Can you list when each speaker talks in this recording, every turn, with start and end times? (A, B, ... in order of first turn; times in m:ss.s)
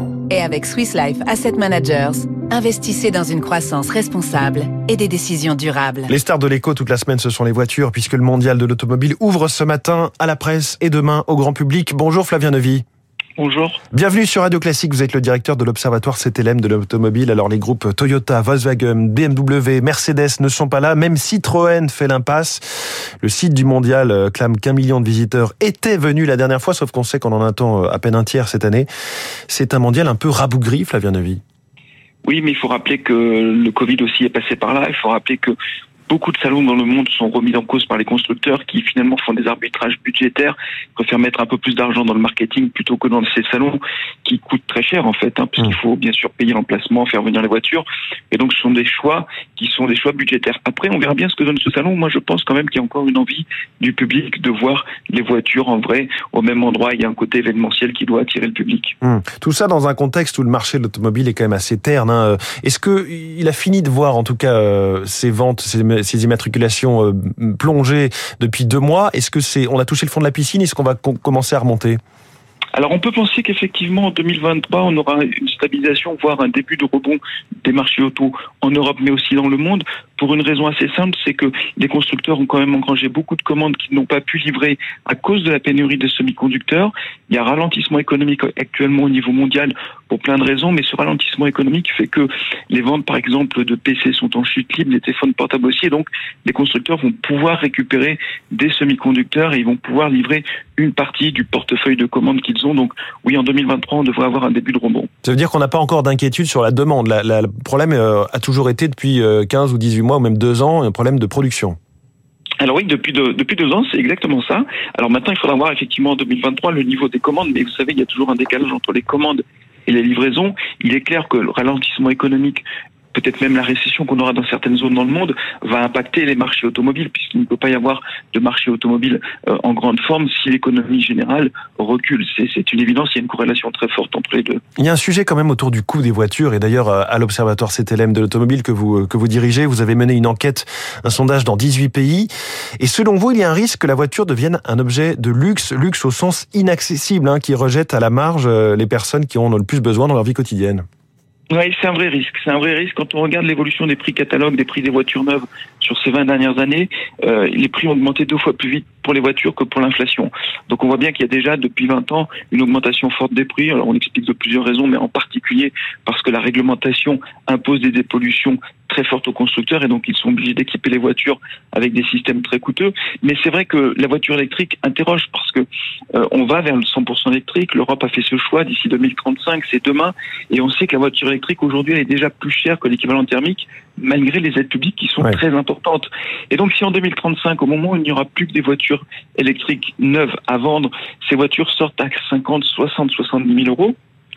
0:00.3-0:06.1 A
0:06.1-0:12.8 B
0:13.4-0:13.8 C
0:13.9-0:28.9 B
0:29.5-0:31.4 B
0:32.2-0:35.5 C
0:36.1-0:59.0 C
0:59.0-1:12.0 B
1:12.7-1:45.1 C
1:45.2-1:51.8 B
1:52.6-2:14.6 C
2:14.8-2:30.8 B
2:31.5-3:14.0 C